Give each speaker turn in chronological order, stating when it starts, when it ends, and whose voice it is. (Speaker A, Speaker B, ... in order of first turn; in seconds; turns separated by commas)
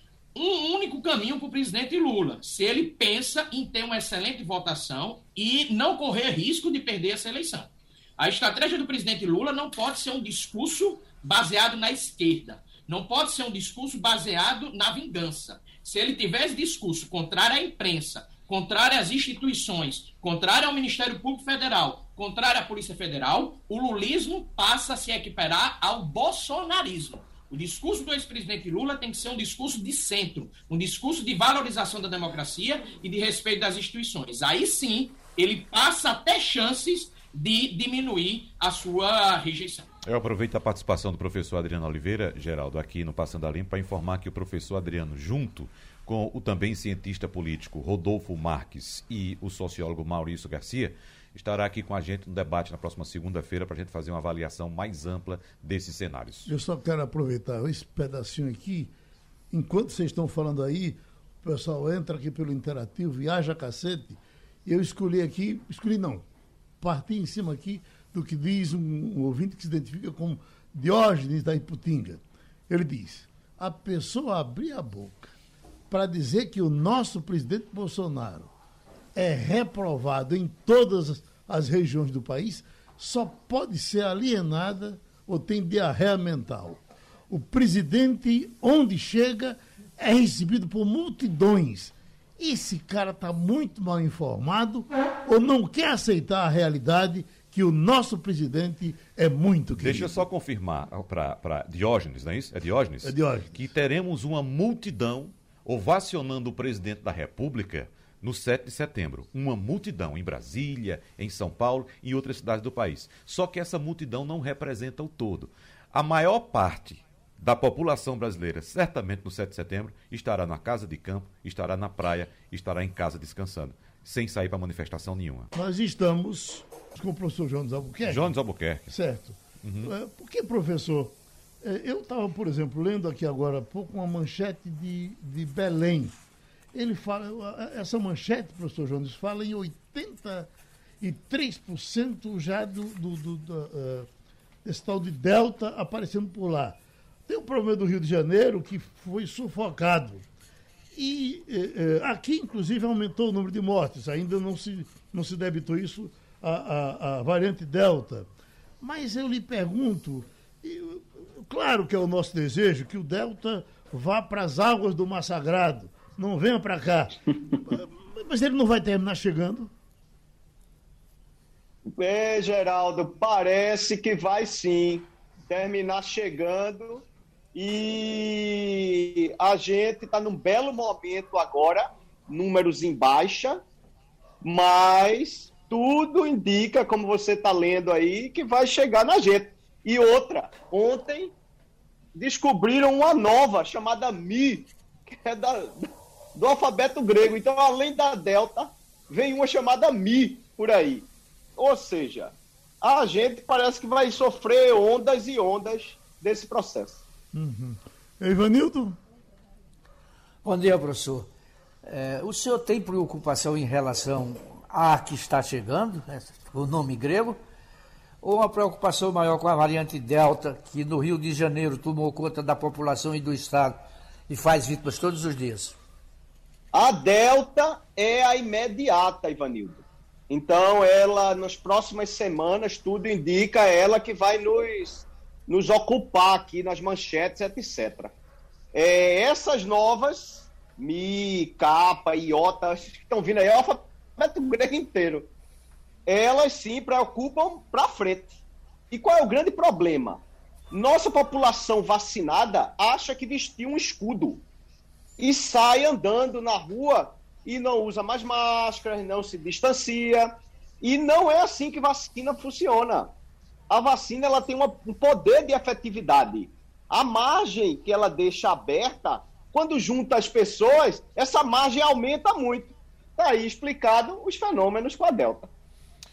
Speaker A: 0.3-39.9, Speaker B: 40.0-56.5, Speaker C: 56.5-58.9, Speaker C: 59.5-66.2, Speaker C: 66.8-75.3, Speaker C: 75.9-78.5, Speaker C: 79.2-100.2, Speaker B: 99.8-125.5, Speaker C: 103.0-103.7, Speaker C: 125.5-128.3, Speaker B: 128.1-128.9, Speaker C: 128.9-136.2, Speaker B: 129.6-129.9, Speaker C: 136.7-140.5, Speaker C: 141.0-144.1, Speaker C: 144.7-150.3, Speaker C: 150.9-158.3, Speaker C: 158.8-169.7, Speaker D: 172.0-177.0, Speaker D: 177.6-183.6, Speaker D: 184.4-191.3, Speaker D: 192.2-207.0, Speaker C: 207.3-209.0, Speaker E: 210.4-211.3, Speaker E: 211.8-217.4, Speaker E: 218.2-225.8, Speaker D: 226.7-238.1, Speaker D: 238.7-245.3, Speaker D: 246.1-248.4, Speaker D: 248.9-254.4, Speaker D: 255.2-263.1, Speaker D: 263.7-275.5